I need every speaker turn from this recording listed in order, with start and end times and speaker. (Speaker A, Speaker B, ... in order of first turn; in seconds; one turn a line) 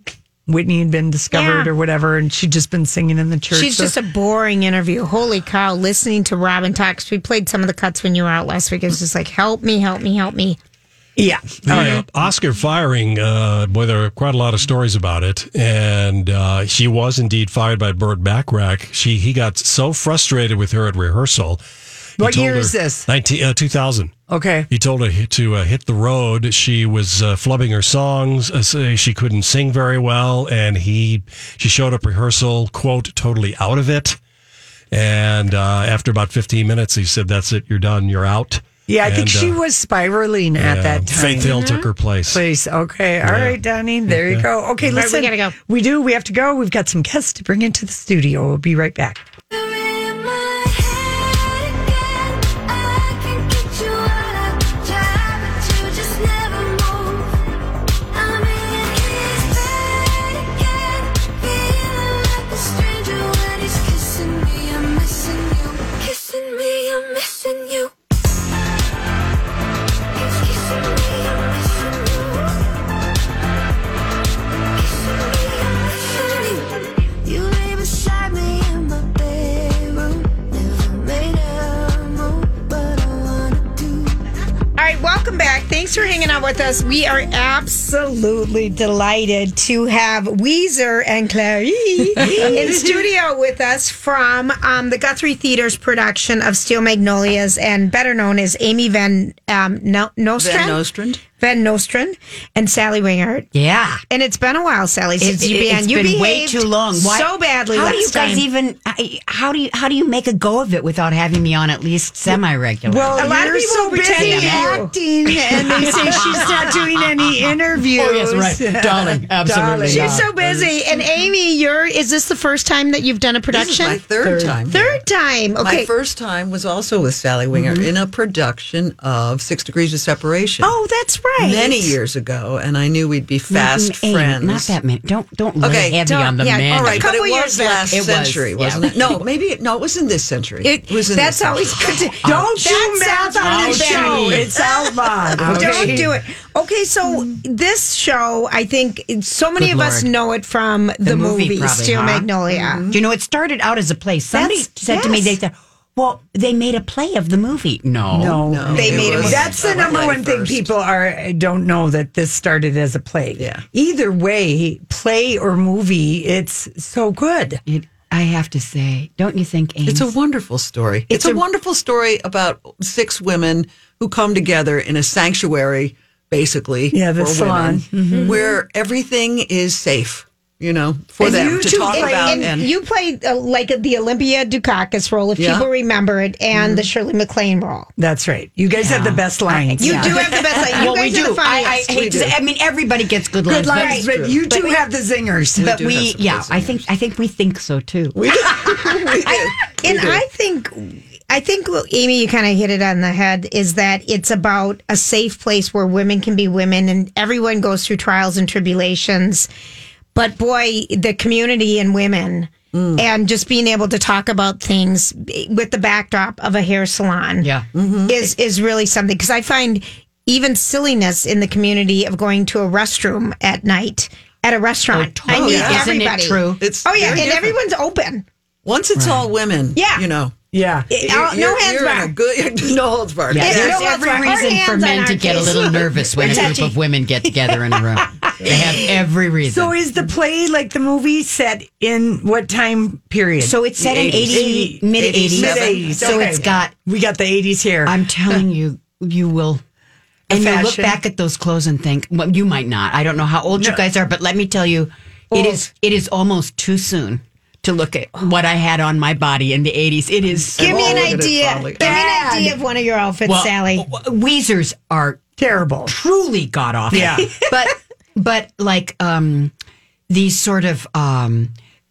Speaker A: 0.5-3.9
Speaker B: 1.3-1.7
Speaker B: 3.5-10.6
Speaker A: 11.2-12.1
Speaker C: 11.7-21.6
Speaker C: 22.2-24.1
Speaker A: 22.2-23.1
Speaker A: 24.3-24.7
Speaker C: 24.7-34.2
Speaker C: 34.9-39.6
Speaker A: 38.9-41.6
Speaker C: 40.6-42.4
Speaker B: 41.4-41.9
Speaker A: 42.3-49.2
Speaker C: 43.2-45.0
Speaker B: 45.0-45.5
Speaker D: 49.6-51.5
Speaker D: 53.3-53.9
Speaker D: 54.9-56.1
Speaker D: 58.7-59.6
Speaker D: 62.6-65.4
Speaker D: 77.3-79.9
Speaker D: 80.8-82.0
Speaker D: 83.5-83.8
Speaker B: 84.8-100.8
Speaker A: 92.2-93.0
Speaker E: 100.4-101.2
Speaker B: 101.4-103.5
Speaker F: 103.5-104.0
Speaker B: 104.1-108.5
Speaker F: 105.2-113.5
Speaker A: 112.8-120.3
Speaker B: 113.2-116.7
Speaker F: 114.1-114.8
Speaker F: 115.5-117.0
Speaker F: 117.8-120.3
Speaker B: 119.8-124.0
Speaker E: 120.2-120.7
Speaker E: 123.5-125.0
Speaker A: 124.2-124.6
Speaker B: 124.7-125.9
Speaker E: 125.6-130.7
Speaker F: 127.5-127.9
Speaker B: 130.6-132.0
Speaker E: 131.4-134.7
Speaker F: 133.5-137.1
Speaker E: 135.6-136.0
Speaker B: 136.0-137.9
Speaker E: 136.7-142.2
Speaker F: 137.8-139.2
Speaker B: 140.6-152.8
Speaker A: 142.2-146.1
Speaker F: 142.2-142.5
Speaker F: 143.4-144.6
Speaker F: 145.4-146.1
Speaker F: 149.6-150.1
Speaker F: 151.0-152.3
Speaker E: 152.5-153.0
Speaker F: 152.9-159.7
Speaker B: 154.3-155.4
Speaker A: 158.1-167.6
Speaker E: 158.3-160.7
Speaker B: 158.7-159.5
Speaker E: 163.4-163.6
Speaker F: 167.7-170.2
Speaker E: 169.9-182.7
Speaker F: 171.1-171.4
Speaker A: 176.9-178.4
Speaker B: 178.1-178.6
Speaker A: 181.2-182.5
Speaker B: 181.2-187.9
Speaker E: 185.4-185.7
Speaker E: 186.6-186.8
Speaker A: 188.0-190.2
Speaker F: 188.8-194.8
Speaker B: 189.5-191.9
Speaker E: 190.1-190.8
Speaker E: 191.8-192.4
Speaker A: 193.4-195.8
Speaker B: 193.8-194.1
Speaker E: 193.9-194.4
Speaker F: 195.6-199.0
Speaker E: 195.6-196.9
Speaker E: 198.2-200.2
Speaker B: 199.1-209.5
Speaker B: 210.2-217.5
Speaker E: 212.7-213.1
Speaker F: 217.4-217.7
Speaker E: 217.7-218.2
Speaker B: 218.1-228.2
Speaker F: 224.9-227.2
Speaker E: 225.3-225.9
Speaker E: 226.6-227.6
Speaker E: 228.7-230.3
Speaker F: 229.0-229.3
Speaker B: 229.8-230.1
Speaker A: 230.5-230.9
Speaker E: 230.9-233.9
Speaker B: 230.9-232.1
Speaker F: 233.3-239.8
Speaker B: 233.3-236.8
Speaker A: 233.6-234.2
Speaker E: 238.4-238.9
Speaker A: 239.5-248.4
Speaker F: 243.4-246.8
Speaker E: 243.8-244.3
Speaker E: 244.9-246.4
Speaker F: 247.9-249.6
Speaker A: 250.3-251.0
Speaker F: 250.3-261.3
Speaker B: 255.3-255.6
Speaker E: 260.5-262.0
Speaker B: 260.6-263.9
Speaker A: 261.8-262.6
Speaker F: 263.3-265.3
Speaker A: 265.4-265.9
Speaker F: 265.9-269.5
Speaker A: 266.9-267.3
Speaker F: 270.1-271.5